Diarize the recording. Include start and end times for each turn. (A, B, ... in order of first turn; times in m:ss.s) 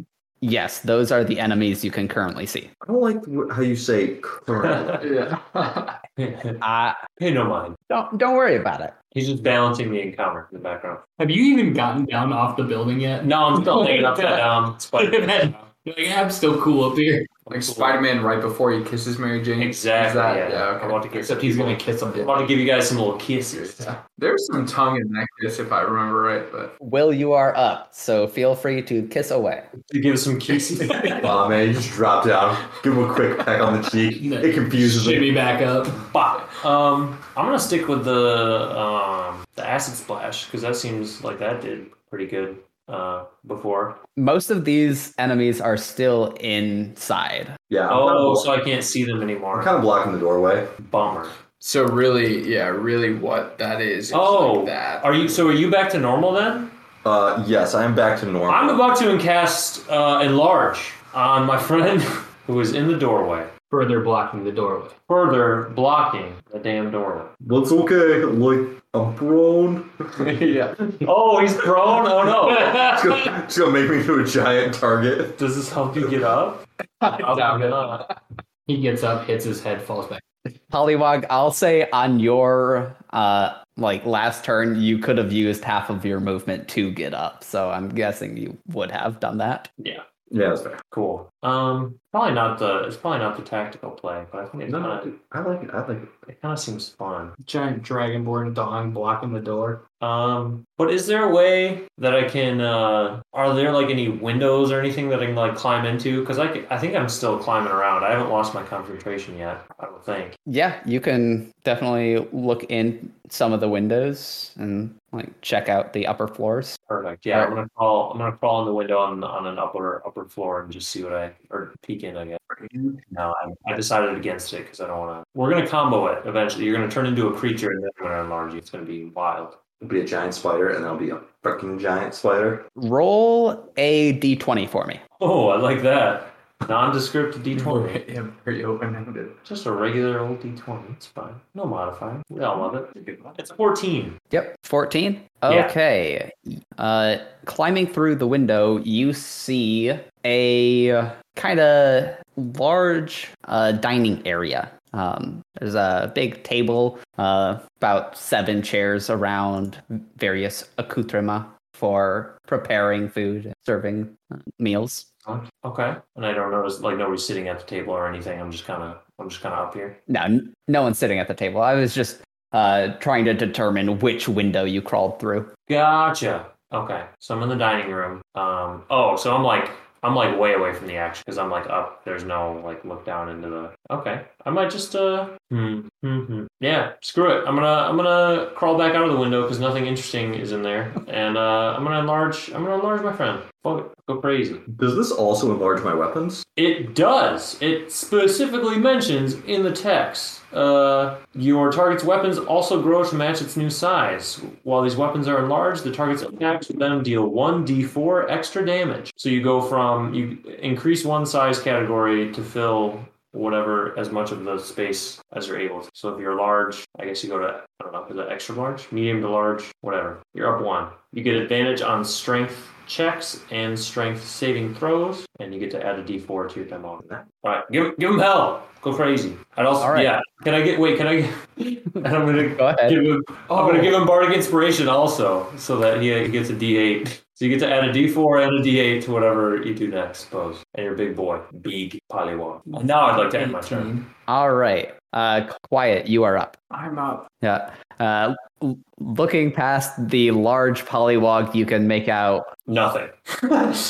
0:00.4-0:02.7 A
0:02.8-0:05.1 B
0:04.6-0:05.0 C
0:05.0-0:06.0 D
0:06.2-0:06.6 C
0:06.6-0:07.0 A
0:07.2-0:07.8 C
0:07.9-0:08.9 A
0:09.1-0:11.0 C
0:11.2-0:17.3 E
0:13.2-0:15.6 C
0:17.5-0:18.0 C
0:17.5-0:22.3 D
0:19.6-0:23.8 C
0:21.2-0:22.3 E
0:23.5-0:26.7 D
0:26.8-0:29.7 A
0:29.8-0:31.5 C
0:31.2-0:35.4 B
0:34.2-0:36.0 E
0:36.0-0:44.0 C
0:44.2-0:47.6 A
0:47.7-0:48.5 B
0:47.9-0:49.7 C
0:49.5-0:50.7 B
0:50.8-0:51.4 C
0:51.6-0:55.1 D
0:54.1-0:56.7 C
0:57.0-0:58.8 B
0:58.5-1:03.5 C
1:03.7-1:05.0 E
1:05.1-1:07.3 C
1:07.4-1:10.3 B
1:10.2-1:10.8 D
1:11.0-1:12.9 C
1:12.5-1:13.2 E
1:12.8-1:15.4 B
1:15.4-1:18.0 C
1:17.0-1:18.1 D
1:18.7-1:20.2 E
1:20.7-1:29.7 A
1:29.8-1:30.0 C
1:30.3-1:30.8 B
1:30.9-1:35.1 C
1:34.7-1:36.2 B
1:36.3-1:37.3 C
1:37.4-1:39.8 E
1:40.0-1:50.4 C
1:50.5-1:56.8 A
1:56.9-2:02.4 C
2:02.6-2:02.9 D
2:03.1-2:09.6 C
2:09.8-2:12.7 B
2:12.8-2:15.0 A
2:15.2-2:18.0 C
2:17.5-2:19.4 D
2:19.4-2:24.2 C
2:24.3-2:45.1 A
2:25.5-2:25.7 C
2:45.2-2:50.0 C
2:50.1-2:55.5 A
2:55.7-3:14.6 C
3:14.7-3:16.4 B
3:16.6-4:03.9 C
3:49.8-3:50.1 A
3:52.5-3:53.0 A
3:53.5-3:53.9 E
4:02.7-4:04.0 E
4:04.3-4:06.5 A
4:06.7-4:07.2 D
4:07.4-4:12.5 A
4:12.7-4:13.8 C